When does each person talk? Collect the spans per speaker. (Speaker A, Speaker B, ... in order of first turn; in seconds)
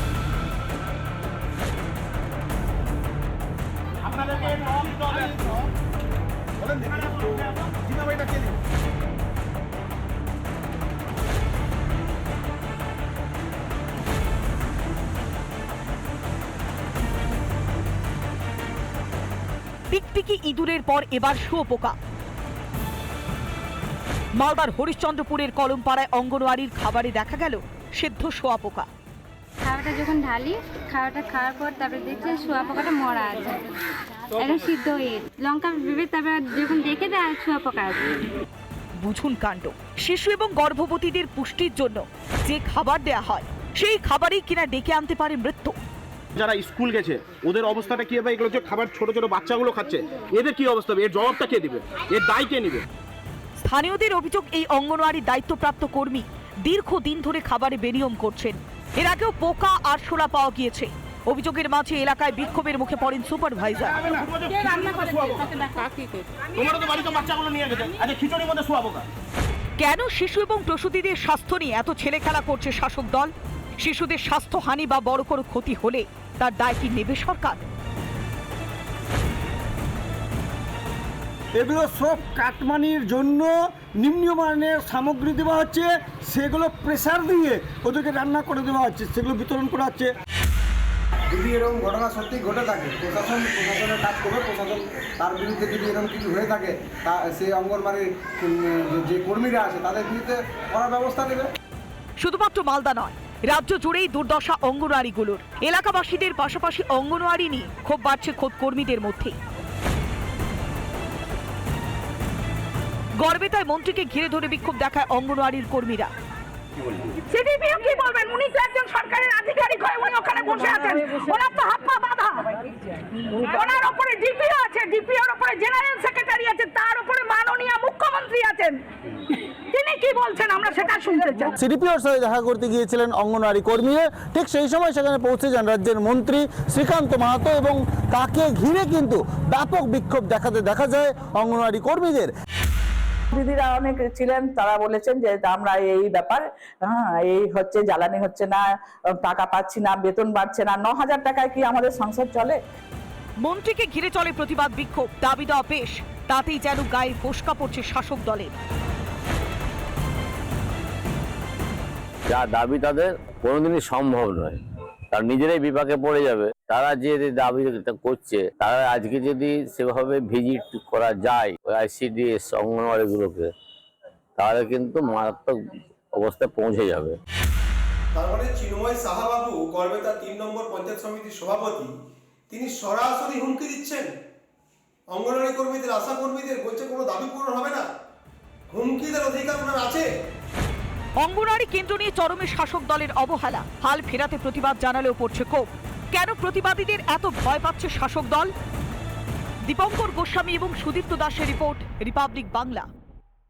Speaker A: 4.1-5.4, 6.6-8.5, 46.4-52.8, 64.0-65.9, 66.5-69.0
Speaker B: 19.9-21.9, 24.3-28.9, 39.0-45.8, 53.6-64.1, 69.8-77.6, 102.2-109.4, 113.2-116.1, 153.4-158.5, 191.2-198.5, 199.6-202.9
Speaker C: 29.6-38.2
Speaker D: 81.6-90.1
Speaker E: 91.3-101.5
Speaker F: 117.2-128.8, 129.4-131.5
Speaker G: 131.6-142.3
Speaker H: 143.3-152.6
Speaker I: 162.3-164.6, 165.1-173.5, 174.4-175.6, 176.1-177.2
Speaker J: 178.1-181.9, 182.5-184.1, 185.1-187.8, 188.7-190.1